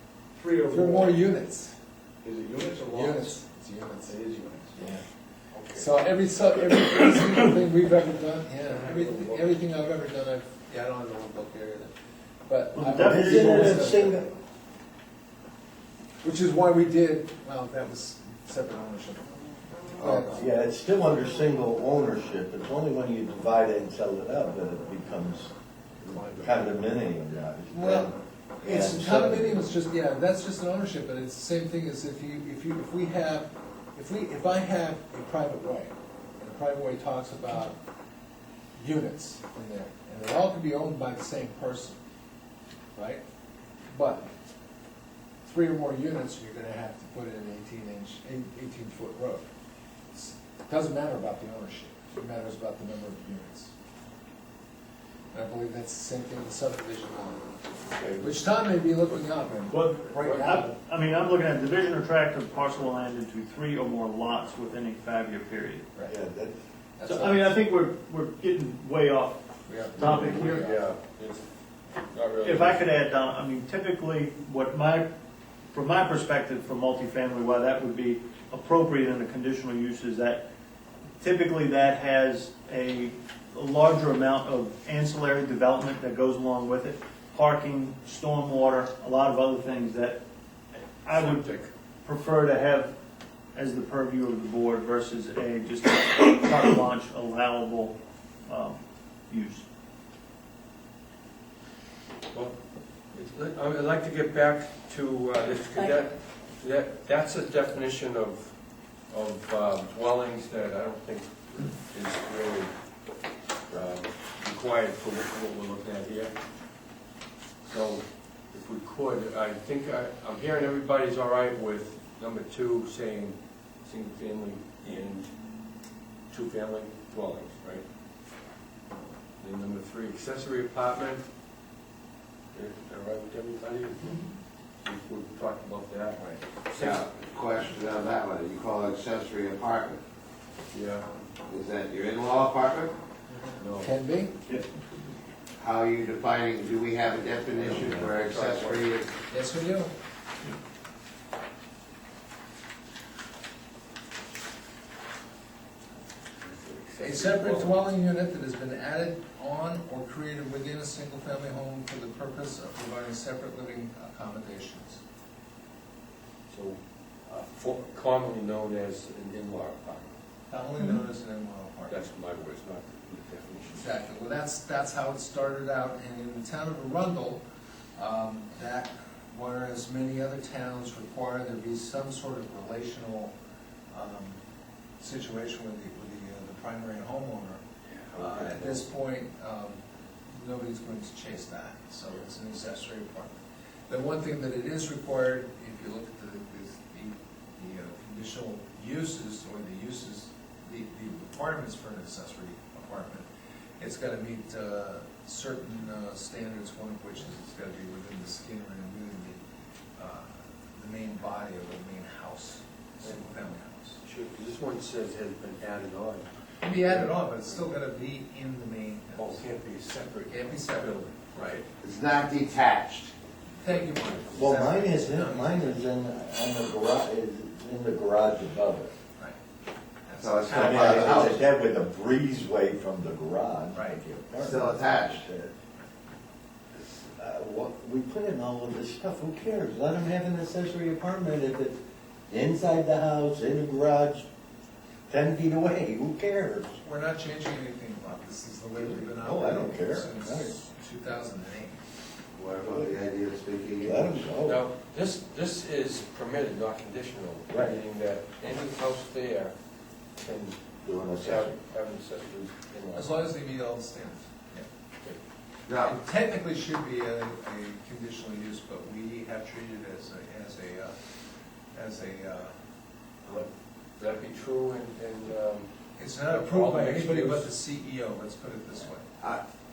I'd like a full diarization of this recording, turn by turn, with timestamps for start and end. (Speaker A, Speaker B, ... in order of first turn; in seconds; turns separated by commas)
Speaker A: 0.3-1.2, Speaker B: 0.7-1.8, Speaker A: 2.2-3.4, Speaker B: 2.9-4.2, Speaker A: 4.0-4.8, Speaker B: 4.7-5.0, Speaker A: 5.5-5.8, Speaker B: 5.7-11.9, Speaker A: 8.7-9.5, Speaker B: 12.4-14.3, Speaker C: 12.7-13.8, Speaker D: 13.0-14.3, Speaker B: 16.2-19.2, Speaker B: 20.0-20.5, Speaker D: 20.0-25.5, Speaker E: 26.0-26.5, Speaker D: 26.2-29.6, Speaker B: 27.7-37.8, Speaker B: 38.8-42.0, Speaker B: 42.9-43.2, Speaker B: 43.9-44.3, Speaker B: 45.4-49.4, Speaker B: 50.1-53.7, Speaker B: 55.3-57.5, Speaker B: 58.2-60.7, Speaker C: 59.7-65.9, Speaker E: 60.2-60.5, Speaker D: 66.1-66.5, Speaker B: 67.0-67.5, Speaker C: 67.0-69.4, Speaker B: 69.7-70.8, Speaker C: 69.9-70.8, Speaker E: 70.0-71.4, Speaker E: 72.1-72.8, Speaker C: 72.4-75.1, Speaker C: 75.7-80.5, Speaker C: 81.2-90.2, Speaker C: 91.0-91.5, Speaker E: 91.1-91.7, Speaker C: 92.0-92.9, Speaker C: 93.5-99.6, Speaker E: 102.3-102.6, Speaker E: 103.1-108.5, Speaker E: 109.1-112.7, Speaker E: 113.7-116.3, Speaker E: 117.6-125.3, Speaker E: 126.3-127.8, Speaker E: 129.4-131.2, Speaker E: 132.5-134.2, Speaker E: 134.8-137.1, Speaker F: 136.8-140.0, Speaker E: 140.7-141.1, Speaker F: 141.5-142.9, Speaker E: 143.6-143.9, Speaker B: 143.8-144.4, Speaker F: 145.6-149.2, Speaker E: 147.6-148.9, Speaker B: 149.2-149.9, Speaker E: 156.4-157.8, Speaker B: 157.0-165.0, Speaker E: 166.5-170.1, Speaker B: 170.5-172.0, Speaker E: 171.9-173.9, Speaker B: 173.8-177.4, Speaker B: 177.9-183.3, Speaker B: 183.9-184.4, Speaker B: 185.0-187.6, Speaker E: 188.0-188.8, Speaker B: 188.2-189.8, Speaker B: 190.3-193.4, Speaker B: 193.9-203.3, Speaker B: 203.8-209.4, Speaker B: 210.0-214.0, Speaker E: 214.0-216.3, Speaker B: 216.6-219.4, Speaker E: 219.1-221.2, Speaker B: 220.3-221.7, Speaker F: 221.8-223.1, Speaker B: 223.6-225.8, Speaker E: 223.7-224.1, Speaker D: 224.3-228.9, Speaker B: 230.1-231.3, Speaker F: 230.2-231.4, Speaker D: 230.5-235.5, Speaker B: 233.7-234.5, Speaker F: 234.4-235.2, Speaker D: 236.8-241.8, Speaker D: 242.3-244.3, Speaker D: 245.1-246.8, Speaker B: 246.8-251.8, Speaker D: 248.8-250.5, Speaker F: 252.3-254.2, Speaker D: 253.8-254.6, Speaker E: 254.4-259.5, Speaker D: 257.5-257.8, Speaker E: 260.1-263.1, Speaker D: 260.8-261.6, Speaker B: 262.9-264.7, Speaker F: 265.7-266.0, Speaker B: 265.8-270.9, Speaker B: 271.7-272.5, Speaker E: 273.3-277.5, Speaker B: 276.0-279.1